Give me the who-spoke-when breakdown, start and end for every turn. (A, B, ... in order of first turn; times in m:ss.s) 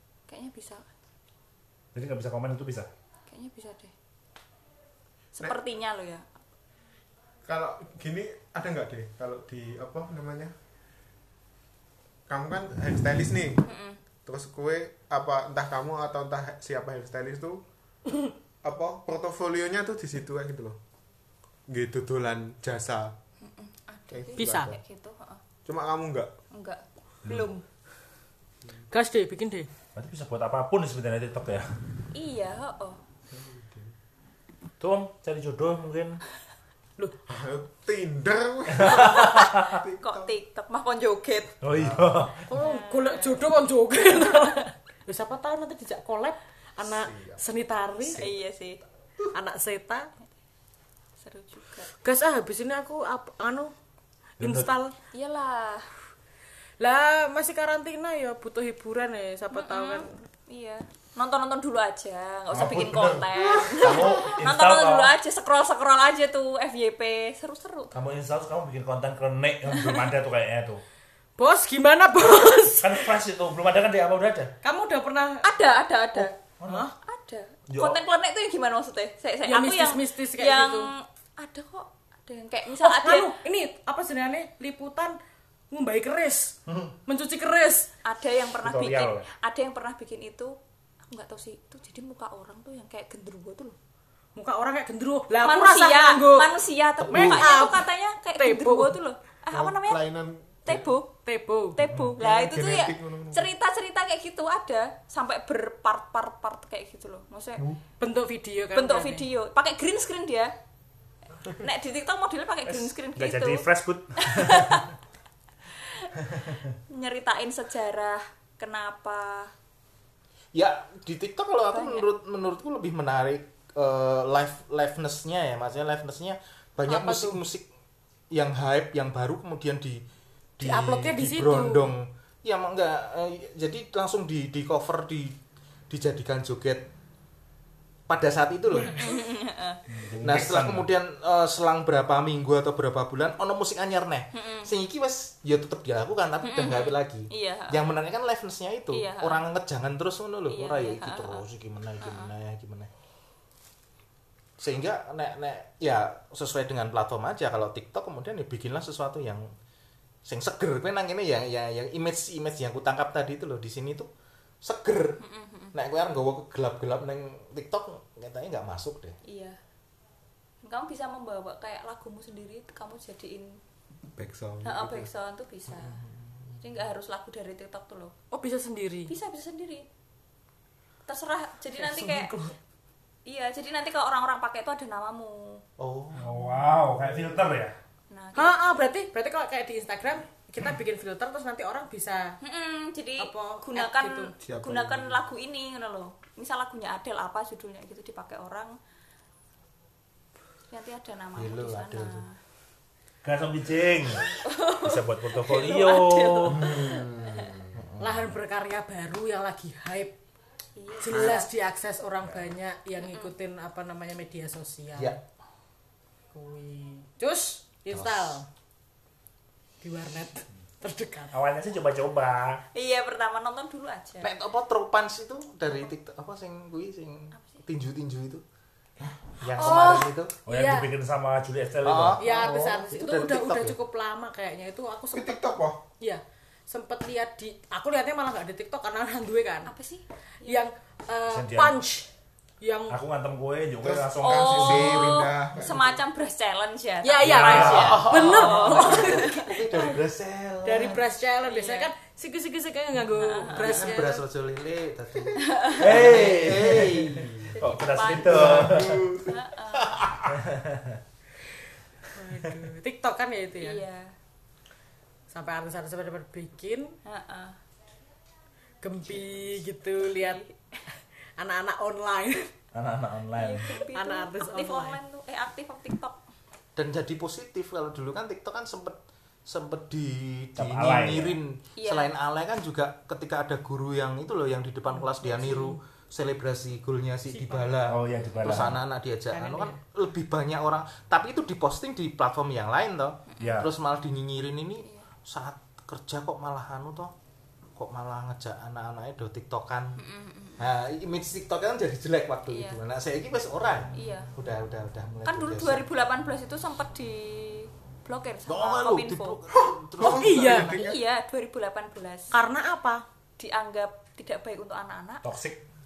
0:00.3-0:00.9 A
0:01.9-0:02.9 B
0:03.3-0:03.9 A
0:05.4-0:06.3 A
0:07.5-0:10.5 C
0:12.3-0:13.7 C
0:13.6-0:14.0 A
0:14.2-0:17.6 C
0:18.6-0:20.8 C
0:21.7-0:23.1 C
0:23.4-0:25.4 A
0:24.1-0:24.8 C
0:24.4-0:24.8 D
0:25.6-0:26.3 C
0:26.5-0:27.6 A
0:28.9-0:29.7 D
0:29.9-0:31.8 B
0:32.1-0:33.0 A
0:33.3-0:33.9 C
0:34.8-0:36.2 B
0:37.3-0:40.3 C
0:38.7-0:39.8 B
0:39.0-0:39.4 A
0:40.0-0:41.6 A
0:41.6-0:42.5 B
0:41.7-0:42.0 E
0:42.5-0:48.3 D
0:42.6-0:43.4 A
0:44.2-0:44.7 A
0:46.8-0:47.4 C
0:48.0-0:48.8 A
0:49.3-0:50.1 D
0:51.2-0:51.9 A
0:51.9-0:53.7 D
0:54.4-0:54.7 B
0:54.4-0:54.9 D
0:55.1-0:55.9 A
0:56.8-1:00.2 D
0:59.5-1:07.9 A
1:02.5-1:05.1 B
1:07.9-1:10.8 B
1:09.8-1:10.0 A
1:11.4-1:13.0 D
1:12.7-1:14.5 B
1:14.6-1:15.5 D
1:15.4-1:16.3 A
1:16.6-1:16.9 B
1:16.6-1:16.9 D
1:17.0-1:23.3 A
1:17.7-1:18.0 B
1:19.4-1:20.9 D
1:22.8-1:25.2 D
1:25.7-1:26.5 D
1:26.7-1:26.9 B
1:27.0-1:27.9 D
1:28.0-1:33.8 A
1:28.6-1:29.3 B
1:34.3-1:36.5 D
1:35.4-1:40.0 A
1:37.0-1:37.4 E
1:37.1-1:38.9 D
1:39.5-1:40.9 C
1:40.6-1:41.2 A
1:41.2-1:41.8 D
1:41.7-1:47.6 A
1:42.2-1:43.5 C
1:48.0-1:49.2 D
1:48.7-1:50.5 A
1:51.5-1:53.6 A
1:52.7-1:54.8 B
1:54.2-1:54.9 A
1:55.8-1:56.1 A
1:56.9-1:59.5 A
2:00.5-2:07.7 E
2:01.7-2:02.1 A
2:06.8-2:07.4 D
2:08.3-2:10.0 E
2:10.6-2:15.4 E
2:10.6-2:12.0 D
2:15.9-2:16.9 E
2:18.1-2:19.0 E
2:18.9-2:19.8 A
2:19.9-2:20.9 B
2:20.2-2:32.9 E
2:24.3-2:24.7 A
2:26.4-2:27.8 A
2:28.9-2:29.4 A
2:30.5-2:31.4 A
2:32.0-2:32.3 A
2:34.6-2:39.5 E
2:40.2-2:44.1 E
2:44.6-2:45.2 E
2:45.2-2:45.7 A
2:45.7-2:49.2 E
2:49.2-2:49.6 A
2:50.6-2:53.6 A
2:54.2-2:55.1 C
2:54.6-2:56.0 A
2:56.6-2:58.1 A
2:58.3-2:59.1 D
2:59.1-2:59.9 A
3:01.0-3:02.3 A
3:01.8-3:02.5 D
3:03.2-3:05.6 A
3:05.8-3:06.3 E
3:06.1-3:07.7 B
3:08.1-3:08.6 A
3:08.4-3:12.4 D
3:12.4-3:18.8 A
3:13.2-3:14.3 D
3:14.4-3:15.2 C
3:20.7-3:22.4 A
3:21.4-3:22.2 E
3:23.2-3:24.3 B
3:24.3-3:27.6 A
3:24.8-3:26.6 B
3:26.6-3:27.7 C
3:27.7-3:28.3 E
3:28.0-3:30.1 D
3:30.8-3:31.5 A
3:31.0-3:35.2 D
3:31.1-3:31.4 C
3:33.0-3:33.3 A
3:34.9-3:35.2 E
3:36.3-3:38.5 D
3:37.9-3:38.4 E
3:39.8-3:41.3 D
3:41.3-3:42.6 B
3:42.7-3:44.3 A
3:44.2-3:48.4 E
3:49.4-3:50.4 E
3:49.6-3:50.1 A
3:50.4-3:52.5 B
3:50.5-3:50.9 D
3:51.8-3:53.8 E
3:52.2-3:55.4 D
3:55.1-3:55.8 C
3:56.0-3:59.7 D
3:59.6-4:00.7 A
4:00.4-4:02.1 D
4:01.3-4:01.8 B
4:02.6-4:03.0 D
4:02.9-4:05.2 B
4:03.8-4:06.0 C
4:04.2-4:09.5 A
4:07.0-4:09.3 D
4:07.2-4:08.1 B
4:07.4-4:11.0 E
4:10.6-4:14.2 D
4:11.4-4:11.9 A
4:13.2-4:14.0 A
4:13.5-4:17.5 E
4:15.4-4:16.0 A
4:15.8-4:19.0 B
4:16.0-4:17.2 C
4:17.6-4:20.0 A
4:18.0-4:19.0 E
4:18.2-4:19.3 C
4:20.3-4:21.0 B
4:22.1-4:23.8 D
4:23.6-4:24.1 A
4:25.3-4:26.9 D
4:27.0-4:27.6 A
4:28.8-4:30.4 D
4:30.0-4:30.8 A
4:31.4-4:32.5 D
4:32.7-4:33.8 B
4:33.3-4:36.2 A
4:33.8-4:35.0 D
4:36.8-4:57.1 E
4:40.6-4:41.4 B
4:41.8-4:42.1 A
4:45.0-4:45.8 D
4:47.3-4:47.8 D
4:47.8-4:48.8 B
4:48.5-4:48.8 D
4:49.3-4:49.8 D
4:53.3-4:53.6 A
4:53.4-4:53.7 B
4:57.8-5:00.0 E
5:00.0-5:00.6 A
5:00.6-5:05.8 E
5:02.5-5:02.8 A
5:03.9-5:04.3 A
5:05.2-5:09.4 A
5:08.5-5:10.8 E
5:09.5-5:11.0 C
5:10.0-5:10.8 D
5:10.8-5:12.4 A
5:12.3-5:13.0 D
5:13.4-5:15.2 A
5:15.2-5:15.6 B